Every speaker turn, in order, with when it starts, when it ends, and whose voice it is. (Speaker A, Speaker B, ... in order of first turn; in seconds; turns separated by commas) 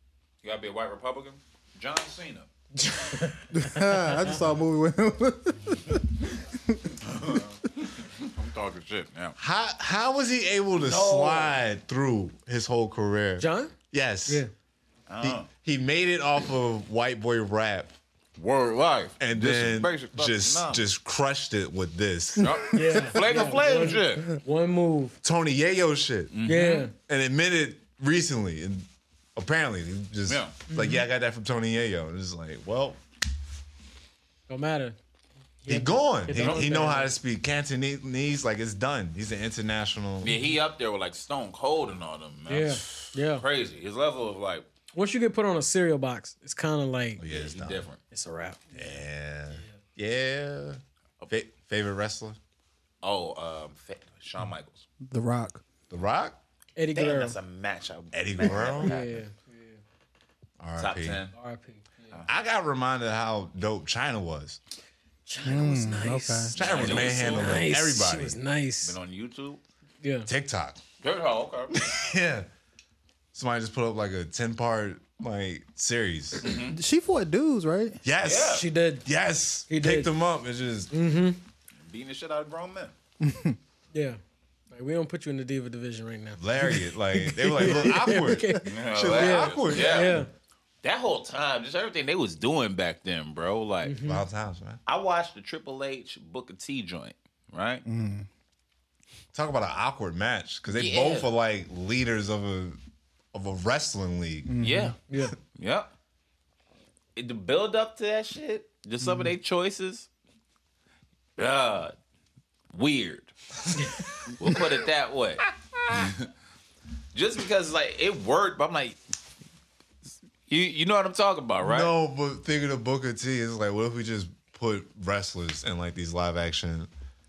Speaker A: 0.4-2.5, Speaker B: 2.8-4.4, Speaker C: 3.5-7.0, Speaker A: 7.0-9.4, Speaker D: 9.4-14.4, Speaker A: 10.8-11.6, Speaker B: 13.4-13.7, Speaker A: 15.1-15.5, Speaker D: 15.2-17.9, Speaker A: 18.4-20.8, Speaker D: 19.2-22.8, Speaker A: 22.4-24.3, Speaker B: 22.7-25.2, Speaker D: 25.2-26.3, Speaker A: 26.3-26.9, Speaker B: 26.4-26.9, Speaker D: 27.0-33.0, Speaker A: 30.3-30.6, Speaker B: 30.7-31.1, Speaker B: 34.5-35.0, Speaker B: 35.6-37.1, Speaker D: 35.7-40.4, Speaker A: 36.4-36.7, Speaker A: 40.2-44.7, Speaker B: 42.5-43.4, Speaker B: 44.9-47.2, Speaker D: 47.2-47.9, Speaker A: 47.3-48.0, Speaker B: 48.1-48.6, Speaker D: 48.7-52.4, Speaker A: 53.0-54.9, Speaker C: 55.0-55.6, Speaker D: 55.9-56.4, Speaker B: 56.8-57.4, Speaker A: 56.9-59.2, Speaker D: 58.1-59.0, Speaker B: 58.8-59.8, Speaker D: 60.6-61.2, Speaker A: 60.8-61.3, Speaker B: 61.3-62.2, Speaker D: 62.3-64.6, Speaker B: 65.3-69.0, Speaker C: 65.4-66.5, Speaker D: 66.5-68.4, Speaker A: 66.6-67.7, Speaker A: 68.8-69.6, Speaker B: 70.0-70.3, Speaker D: 70.3-70.8, Speaker A: 71.0-71.8, Speaker D: 71.7-72.5, Speaker D: 73.3-76.5, Speaker A: 76.4-76.8, Speaker C: 76.7-78.0, Speaker D: 78.0-80.9, Speaker A: 78.2-78.7, Speaker B: 78.4-79.1, Speaker B: 79.7-80.1, Speaker B: 80.9-81.4, Speaker A: 81.8-82.9, Speaker C: 83.2-83.6, Speaker B: 83.9-84.2, Speaker B: 84.7-90.3, Speaker D: 86.4-90.2, Speaker A: 88.6-90.2, Speaker A: 90.8-94.0, Speaker B: 93.8-94.2, Speaker D: 94.0-94.8, Speaker A: 94.9-97.8, Speaker C: 97.9-98.3, Speaker D: 99.3-102.8, Speaker A: 100.7-101.3, Speaker D: 103.3-104.5, Speaker C: 104.5-104.9, Speaker A: 104.6-105.0, Speaker B: 105.1-105.3, Speaker A: 105.5-105.9, Speaker A: 107.2-110.1, Speaker C: 109.0-109.3, Speaker A: 111.4-111.9, Speaker A: 112.7-113.7, Speaker A: 114.3-116.2, Speaker A: 117.1-119.0, Speaker A: 120.5-121.9, Speaker D: 121.6-126.9